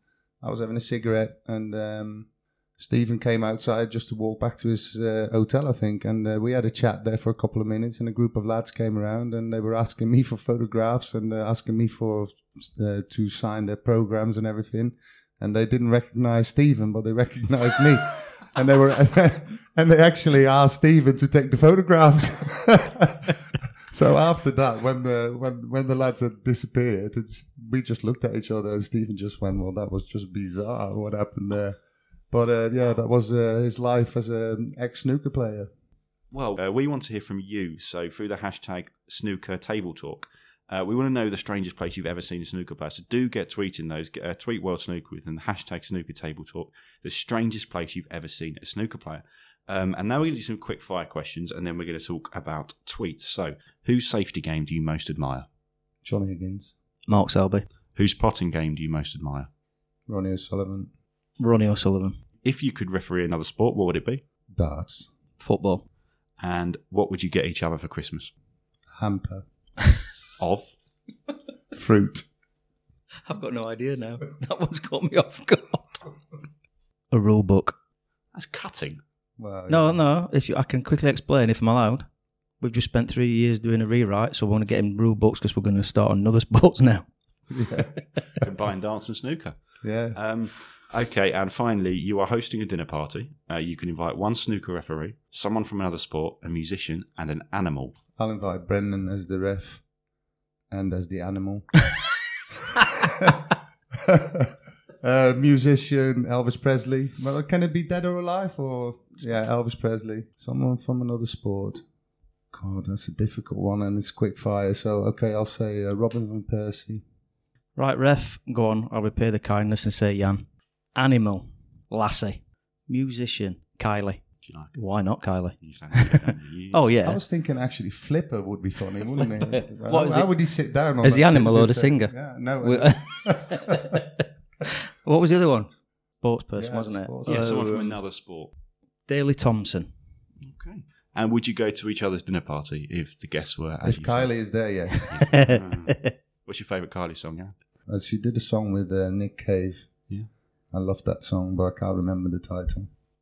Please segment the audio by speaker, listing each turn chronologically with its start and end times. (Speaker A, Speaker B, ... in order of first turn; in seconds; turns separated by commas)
Speaker A: 0.4-31.8, Speaker A: 32.3-35.7, Speaker B: 36.3-55.5, Speaker A: 56.0-56.7, Speaker C: 57.1-57.7, Speaker B: 58.0-59.5, Speaker A: 60.1-60.9, Speaker C: 61.4-62.2, Speaker B: 62.4-64.2, Speaker A: 64.6-65.1, Speaker C: 65.4-65.9, Speaker B: 66.4-68.3, Speaker A: 69.0-69.4, Speaker B: 70.4-70.7, Speaker A: 71.7-72.3, Speaker C: 73.3-76.1, Speaker C: 77.1-77.8, Speaker B: 78.3-79.0, Speaker A: 79.4-80.0, Speaker C: 79.7-82.1, Speaker C: 82.6-87.1, Speaker A: 87.5-88.4, Speaker B: 88.4-89.5, Speaker A: 89.8-90.2, Speaker B: 90.1-98.0, Speaker A: 98.2-99.8, Speaker A: 100.7-101.7, Speaker A: 103.0-103.5, Speaker A: 104.0-111.8, Speaker A: 112.5-117.0, Speaker C: 117.8-127.2, Speaker B: 124.4-124.8, Speaker B: 125.6-126.8, Speaker A: 127.0-134.0, Speaker C: 129.5-130.3, Speaker C: 131.0-134.1, Speaker C: 135.0-137.8, Speaker A: 136.6-137.9, Speaker B: 137.3-138.5, Speaker C: 139.1-139.9, Speaker B: 140.4-144.3, Speaker A: 143.8-145.3, Speaker B: 145.1-147.5, Speaker C: 145.3-146.1, Speaker A: 147.9-150.0, Speaker A: 150.7-152.9